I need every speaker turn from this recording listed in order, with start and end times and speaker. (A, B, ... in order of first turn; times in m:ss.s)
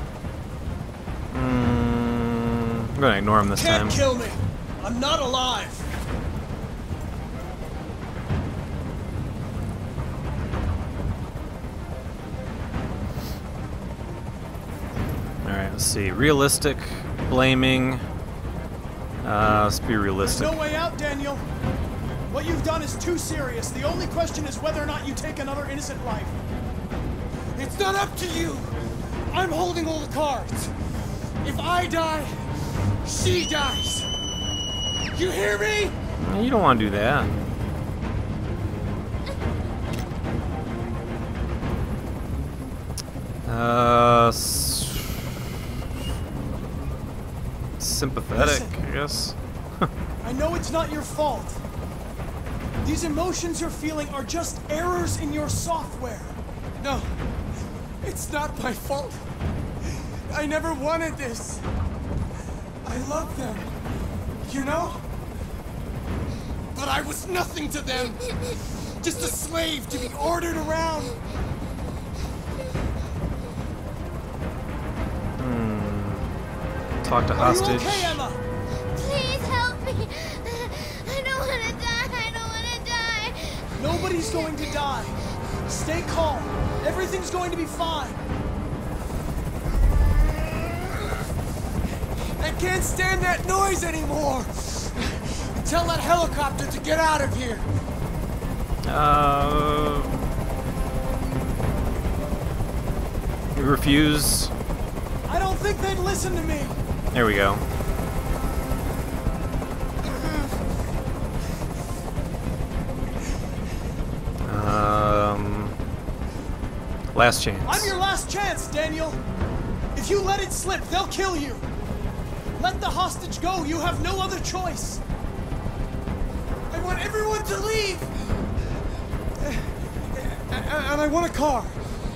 0:01.3-0:04.0 A
0:03.5-0:05.8 B
0:15.4-0:18.0 A
0:19.2-0:20.6 A
0:20.3-0:21.4 B
0:22.3-0:26.4 B
0:27.6-0:28.7 C
0:29.3-0:30.7 C
0:31.4-0:32.4 C
0:33.0-0:34.1 C
0:35.1-0:36.0 C
0:36.2-0:37.4 A
0:43.4-0:45.3 A
0:47.8-0:49.9 A
0:48.3-0:48.8 B
0:50.2-0:51.6 B
0:52.8-0:56.4 B
0:56.8-0:57.1 C
0:58.0-0:59.2 C
1:00.3-1:01.6 C
1:02.8-1:03.7 C
1:04.4-1:05.0 C
1:06.7-1:08.4 C
1:09.0-1:11.2 C
1:15.4-1:16.3 A
1:17.0-1:18.2 A
1:17.3-1:18.4 B
1:18.9-1:24.7 D
1:23.8-1:28.2 B
1:32.4-1:37.7 C
1:38.8-1:40.2 A
1:43.5-1:44.5 A
1:45.3-1:46.8 B
1:47.1-1:47.6 A
1:54.4-1:55.7 A
1:57.1-1:57.9 A
1:57.6-1:59.2 B
1:59.9-2:01.7 B
2:02.6-2:05.0 B
2:06.7-2:08.1 C
2:09.4-2:11.8 C